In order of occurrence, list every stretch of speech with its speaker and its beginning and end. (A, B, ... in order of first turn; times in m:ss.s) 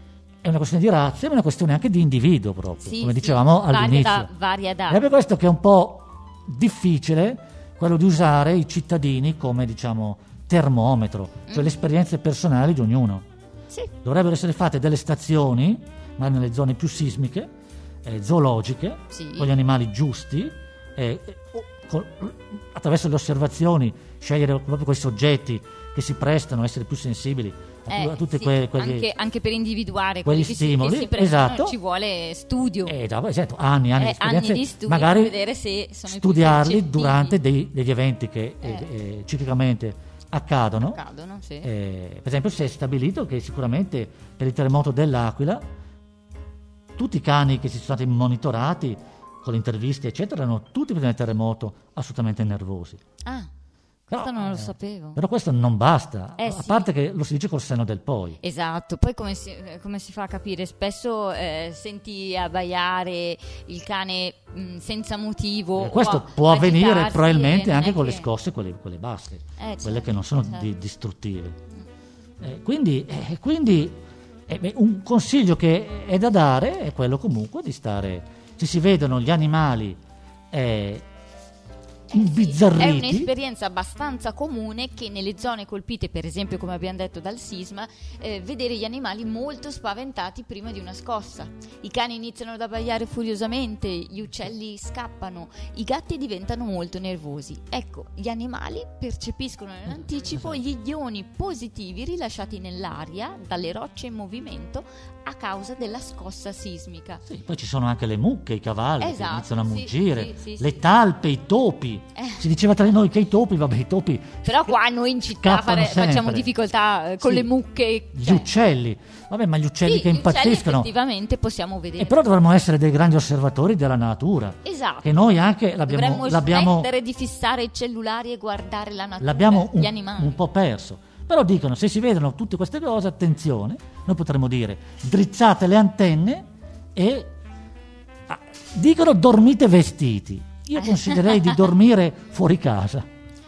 0:00.4-0:04.3 A
0:02.8-0:05.0 B
0:04.9-0:13.3 A
0:14.0-0:17.5 A
0:18.0-0:29.1 A
0:19.1-0:19.5 B
0:27.9-0:33.0 B
0:30.2-0:31.8 A
0:32.9-0:35.4 A
0:34.0-0:37.4 B
0:36.1-0:41.0 A
0:40.8-0:41.7 B
0:41.6-0:45.6 A
0:47.0-0:53.0 A
0:53.2-0:53.5 B
0:54.1-0:55.2 B
0:54.1-0:58.4 A
0:56.4-0:56.9 B
0:58.4-1:08.3 B
1:05.8-1:11.6 A
1:09.6-1:10.7 B
1:12.4-1:20.0 A
1:20.5-1:21.1 A
1:22.1-1:47.2 B
1:22.1-1:23.3 A
1:39.9-1:40.6 A
1:47.3-1:54.6 A
1:49.0-1:50.8 B
1:52.2-1:52.4 B
1:54.4-1:58.5 B
1:55.4-1:56.5 A
1:57.2-1:57.5 A
1:58.1-2:00.9 A
1:59.8-2:02.2 B
2:02.0-2:06.9 A
2:04.6-2:05.2 B
2:05.9-2:10.4 B
2:09.2-2:17.3 A
2:18.3-2:23.1 A
2:20.8-2:21.6 B